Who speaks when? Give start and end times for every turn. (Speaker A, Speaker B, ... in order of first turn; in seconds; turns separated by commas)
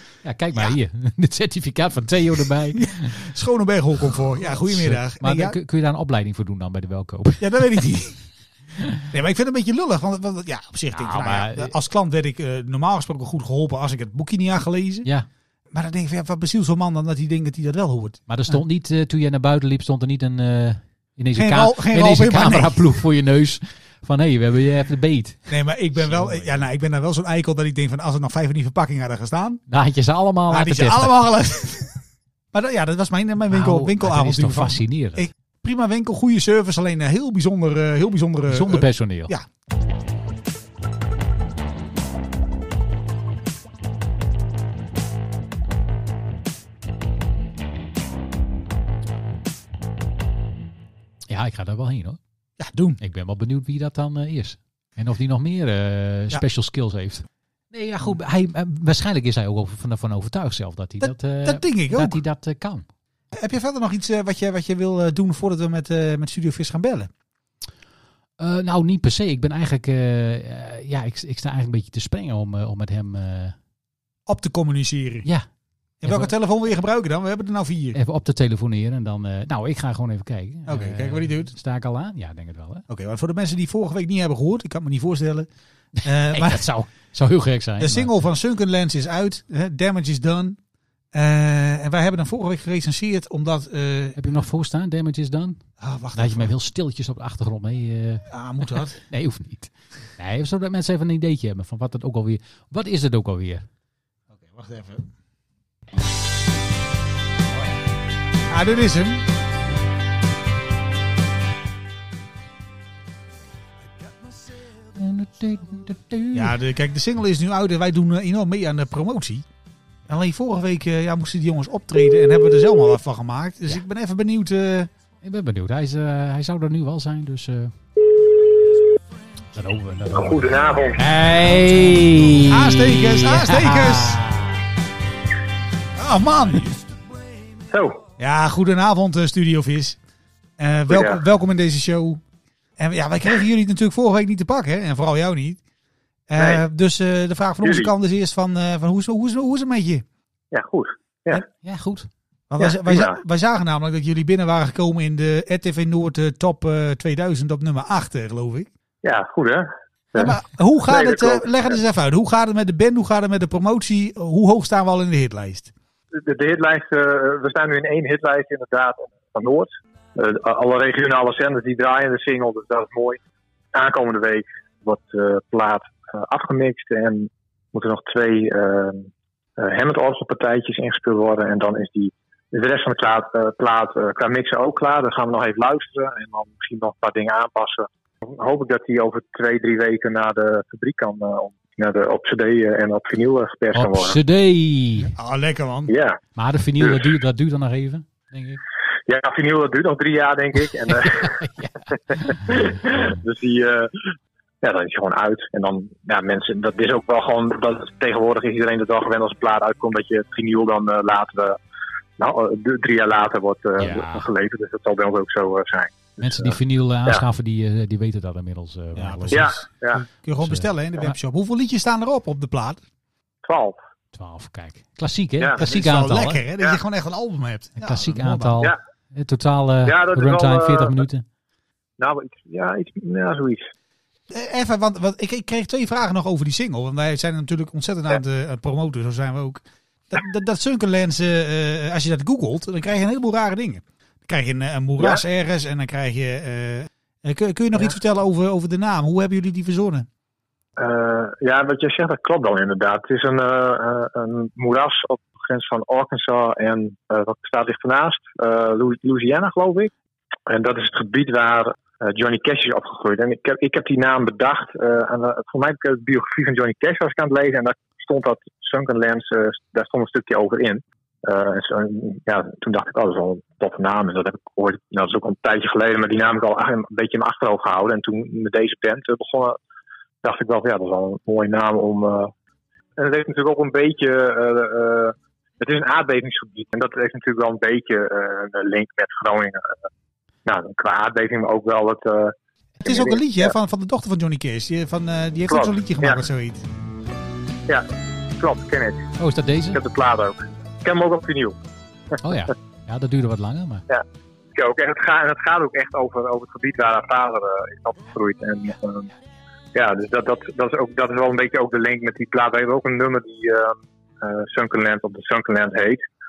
Speaker A: 0.2-3.1, Speaker B: 2.7-5.5, Speaker A: 4.7-7.8, Speaker B: 7.4-8.2, Speaker B: 9.1-15.1, Speaker A: 10.9-11.7, Speaker B: 15.7-18.6, Speaker A: 18.3-26.6, Speaker B: 21.4-22.8, Speaker B: 25.5-29.6, Speaker A: 29.7-31.2, Speaker B: 30.5-39.4, Speaker A: 33.5-35.2, Speaker A: 38.5-39.3, Speaker A: 51.3-52.2, Speaker B: 52.6-53.0, Speaker A: 53.0-62.9, Speaker B: 61.0-62.2, Speaker B: 63.3-67.1, Speaker A: 68.4-73.5, Speaker B: 74.3-75.3, Speaker B: 76.0-78.0, Speaker A: 76.0-76.3, Speaker A: 77.9-82.8, Speaker B: 80.7-81.5, Speaker B: 82.9-85.5, Speaker B: 86.0-86.7, Speaker A: 86.3-88.1, Speaker B: 87.8-90.6, Speaker B: 91.1-94.2, Speaker A: 94.2-95.6, Speaker B: 95.8-96.5, Speaker A: 96.1-98.2, Speaker B: 98.3-99.0, Speaker A: 99.0-103.7, Speaker B: 104.3-105.1, Speaker B: 108.5-109.3, Speaker A: 115.0-116.6, Speaker B: 116.3-119.5, Speaker B: 120.1-124.9, Speaker A: 125.2-127.7, Speaker A: 129.5-134.6, Speaker C: 130.1-131.1, Speaker B: 132.4-134.2, Speaker B: 136.0-136.8, Speaker C: 137.7-138.0, Speaker B: 138.2-140.0, Speaker B: 140.6-142.2, Speaker C: 140.9-141.2, Speaker B: 142.8-145.6, Speaker B: 146.3-150.0, Speaker C: 146.4-146.6, Speaker C: 147.6-147.9, Speaker C: 150.5-151.4, Speaker A: 151.6-152.1, Speaker B: 152.5-158.7, Speaker C: 152.6-153.2, Speaker C: 159.0-160.4, Speaker B: 160.2-165.7, Speaker C: 160.9-161.7, Speaker C: 166.1-173.2, Speaker C: 173.7-194.2, Speaker A: 193.7-195.1, Speaker B: 195.1-195.9, Speaker C: 195.9-196.2, Speaker A: 196.3-198.6, Speaker C: 196.8-197.1, Speaker C: 199.1-201.4, Speaker A: 201.0-202.8, Speaker C: 202.3-211.6, Speaker C: 212.2-217.2, Speaker A: 213.8-214.3, Speaker A: 216.2-219.5, Speaker B: 218.9-222.8, Speaker C: 219.3-220.0, Speaker A: 220.4-221.2, Speaker C: 223.4-223.8, Speaker A: 224.1-226.4, Speaker B: 225.6-228.6, Speaker A: 227.8-231.2, Speaker C: 229.8-231.0, Speaker C: 232.0-233.7, Speaker B: 234.3-250.1, Speaker C: 250.8-259.9, Speaker C: 260.5-279.6, Speaker C: 280.2-282.3, Speaker C: 283.0-289.8, Speaker C: 290.4-293.5, Speaker B: 292.8-296.6, Speaker C: 295.5-296.2, Speaker C: 298.4-299.1, Speaker A: 299.2-299.8, Speaker C: 299.7-301.6, Speaker A: 302.2-303.8, Speaker C: 304.6-309.1, Speaker C: 309.7-316.0